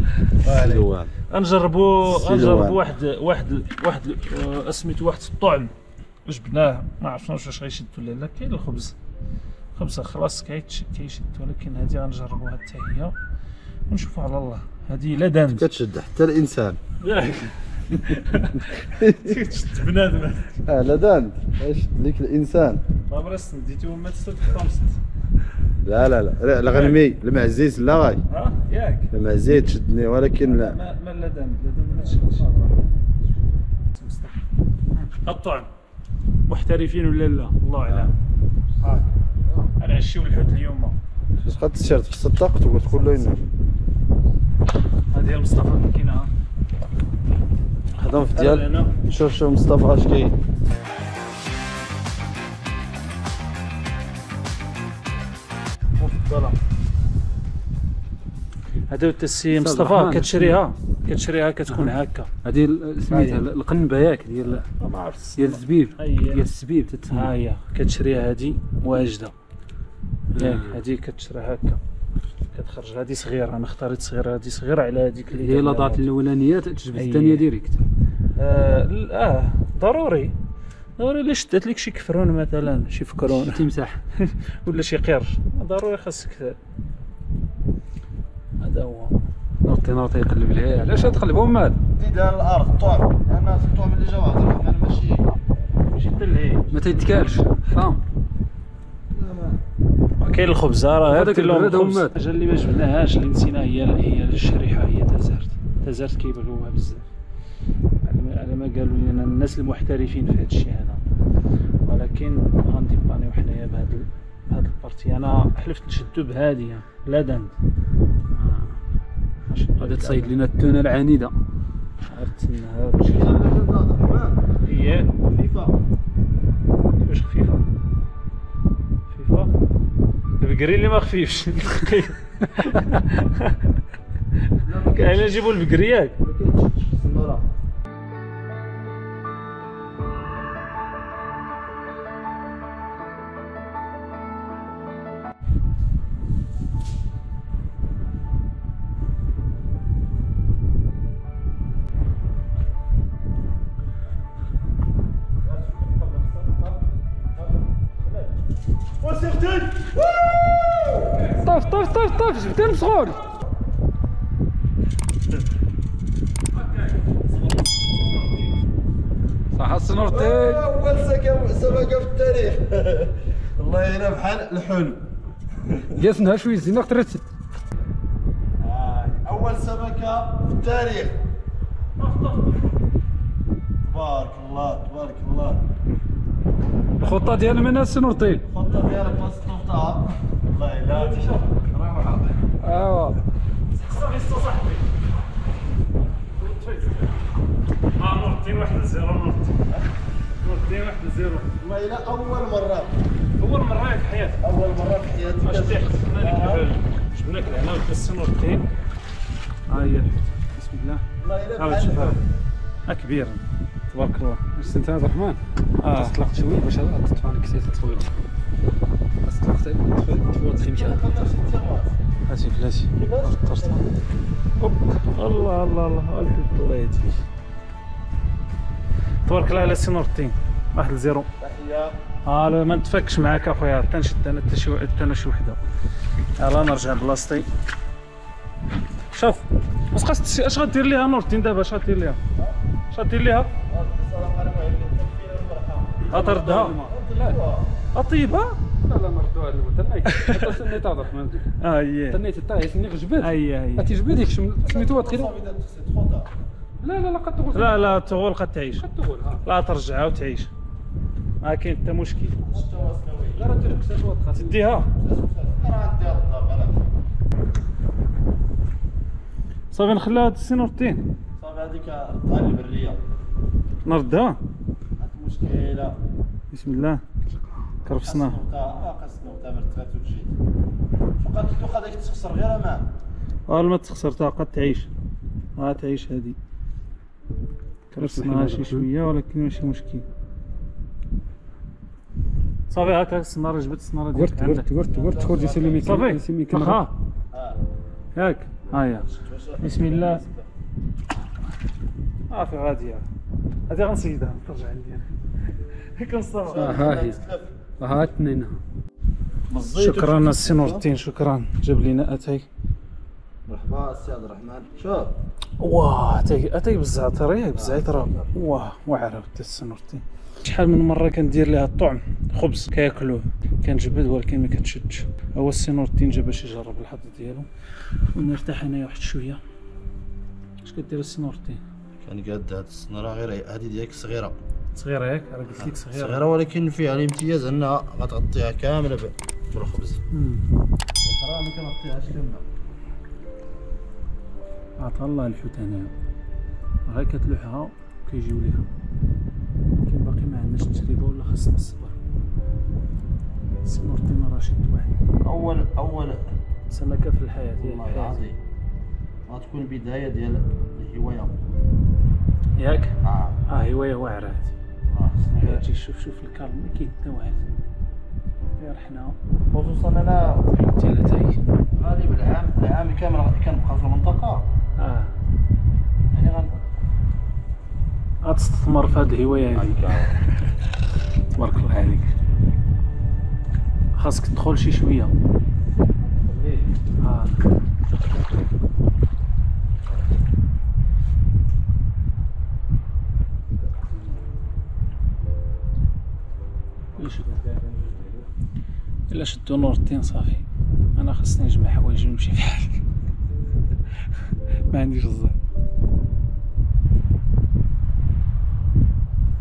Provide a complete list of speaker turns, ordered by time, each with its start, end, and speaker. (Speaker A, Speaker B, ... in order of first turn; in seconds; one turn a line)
Speaker A: 0.3-5.7
Speaker B: 0.4-1.1
Speaker B: 2.0-2.8
Speaker A: 6.2-9.0
Speaker A: 9.8-13.2
Speaker A: 13.9-15.7
Speaker B: 15.6-16.8
Speaker A: 17.0-20.6
Speaker B: 18.8-19.4
Speaker B: 20.7-22.8
Speaker A: 23.1-25.0
Speaker B: 25.8-28.2
Speaker A: 26.7-27.0
Speaker A: 28.3-29.1
Speaker B: 29.1-30.8
Speaker A: 30.4-32.6
Speaker A: 33.9-34.4
Speaker A: 34.9-35.7
Speaker A: 36.5-38.1
Speaker B: 37.9-38.1
Speaker A: 39.8-41.0
Speaker B: 41.4-43.4
Speaker A: 45.1-46.3
Speaker B: 48.0-50.4
Speaker A: 48.3-49.0
Speaker B: 56.0-56.6
Speaker A: 58.9-62.3
Speaker C: 59.5-60.6
Speaker C: 61.7-64.7
Speaker B: 63.1-63.4
Speaker A: 64.8-66.5
Speaker C: 65.3-67.3
Speaker A: 67.1-69.3
Speaker C: 70.3-70.8
Speaker A: 70.3-71.8
Speaker A: 72.5-76.1
Speaker C: 75.3-77.8
Speaker A: 76.9-77.5
Speaker A: 78.3-80.3
Speaker A: 81.0-86.6
Speaker C: 83.3-84.0
Speaker A: 88.6-90.4
Speaker C: 90.0-91.8
Speaker B: 91.9-95.4
Speaker A: 95.9-96.8
Speaker C: 96.7-98.0
Speaker B: 99.1-99.6
Speaker A: 100.2-107.1
Speaker C: 101.1-102.1
Speaker A: 108.0-111.0
Speaker A: 111.8-117.5
Speaker C: 118.4-118.7
Speaker A: 119.5-120.4
Speaker C: 119.8-121.3
Speaker A: 122.1-123.3
Speaker B: 123.0-124.5
Speaker A: 124.6-125.1
Speaker B: 125.2-125.8
Speaker A: 127.0-127.7
Speaker A: 129.1-129.5
Speaker A: 130.4-133.6
Speaker B: 134.6-135.6
Speaker A: 134.9-136.2
Speaker B: 136.2-137.4
Speaker B: 155.4-156.8
Speaker B: 159.0-161.4
Speaker C: 161.3-163.2
Speaker C: 169.5-170.7
Speaker B: 169.9-175.0
Speaker B: 175.7-176.0
Speaker C: 175.9-177.2
Speaker B: 178.6-181.2
Speaker A: 182.0-182.8
Speaker B: 183.8-185.7
Speaker A: 187.0-187.6
Speaker C: 187.0-188.5
Speaker B: 188.5-192.4
Speaker A: 190.9-191.6
Speaker C: 192.6-193.2
Speaker A: 193.7-194.9
Speaker A: 196.3-197.1
Speaker A: 198.0-199.6
Speaker A: 200.4-201.5
Speaker B: 201.6-203.0
Speaker A: 203.4-204.4
Speaker B: 204.4-206.7
Speaker A: 205.2-208.7
Speaker A: 209.7-212.2
Speaker B: 211.2-212.3
Speaker A: 212.9-214.5
Speaker C: 214.6-218.1
Speaker A: 215.8-216.2
Speaker C: 219.2-221.1
Speaker B: 220.6-222.0
Speaker A: 222.3-223.9
Speaker B: 223.0-223.9
Speaker A: 224.6-227.2
Speaker A: 229.2-231.3
Speaker B: 231.4-232.0
Speaker A: 232.2-235.6
Speaker A: 236.4-237.5
Speaker A: 239.1-242.2
Speaker A: 242.9-243.5
Speaker B: 243.7-247.7
Speaker A: 246.1-246.8
Speaker C: 246.1-247.4
Speaker A: 247.9-248.6
Speaker C: 248.8-251.5
Speaker A: 250.1-250.5
Speaker A: 251.6-252.2
Speaker C: 252.1-255.3
Speaker A: 253.2-253.9
Speaker B: 254.6-256.3
Speaker C: 256.8-258.0
Speaker A: 257.5-258.9
Speaker C: 258.8-259.4
Speaker A: 259.4-260.5
Speaker A: 261.4-262.6
Speaker B: 262.4-263.5
Speaker C: 263.4-264.6
Speaker A: 264.3-264.9
Speaker B: 265.0-266.8
Speaker A: 269.7-271.0
Speaker B: 271.4-273.0
Speaker A: 273.8-274.4
Speaker B: 275.0-276.0
Speaker A: 276.5-277.0
Speaker A: 277.8-278.4
Speaker B: 278.0-280.4
Speaker B: 281.2-282.9
Speaker A: 283.5-284.9
Speaker A: 285.6-286.4
Speaker A: 287.9-290.1
Speaker C: 288.0-288.9
Speaker A: 292.7-294.7
Speaker C: 294.1-296.8
Speaker B: 294.9-295.9
Speaker A: 295.8-297.0
Speaker B: 297.3-297.6
Speaker A: 298.1-299.1
Speaker B: 298.8-300.5
Speaker A: 299.6-300.2
Speaker A: 302.3-303.1
Speaker A: 303.7-305.2
Speaker A: 305.9-306.8
Speaker B: 306.5-307.6
Speaker C: 306.6-307.2
Speaker C: 307.8-308.6
Speaker B: 309.5-310.9
Speaker A: 309.7-312.5
Speaker B: 313.5-315.2
Speaker A: 315.6-327.5
Speaker B: 317.5-318.3
Speaker A: 328.1-329.4
Speaker A: 330.6-331.6
Speaker B: 332.0-334.4
Speaker A: 334.7-336.2
Speaker B: 335.5-340.0
Speaker A: 340.1-340.4
Speaker B: 341.0-342.4
Speaker A: 344.8-345.9
Speaker A: 346.9-348.7
Speaker A: 349.7-352.0
Speaker A: 353.6-355.0
Speaker B: 355.2-356.2
Speaker A: 356.7-358.3
Speaker B: 357.6-358.4
Speaker B: 359.3-361.4
Speaker A: 362.6-362.9
Speaker B: 363.0-363.4
Speaker A: 363.5-364.5
Speaker B: 364.9-365.7
Speaker A: 365.3-367.5
Speaker A: 368.6-369.2
Speaker B: 369.5-370.5
Speaker A: 370.7-371.5
Speaker B: 371.7-374.5
Speaker A: 374.8-375.1
Speaker B: 376.1-376.6
Speaker A: 378.2-380.0
Speaker B: 379.5-380.2
Speaker A: 381.4-382.1
Speaker A: 383.9-385.1
Speaker B: 386.1-386.7
Speaker A: 387.0-387.4
Speaker A: 397.0-397.4
Speaker B: 397.0-398.2
Speaker A: 399.1-402.8
Speaker A: 404.7-405.4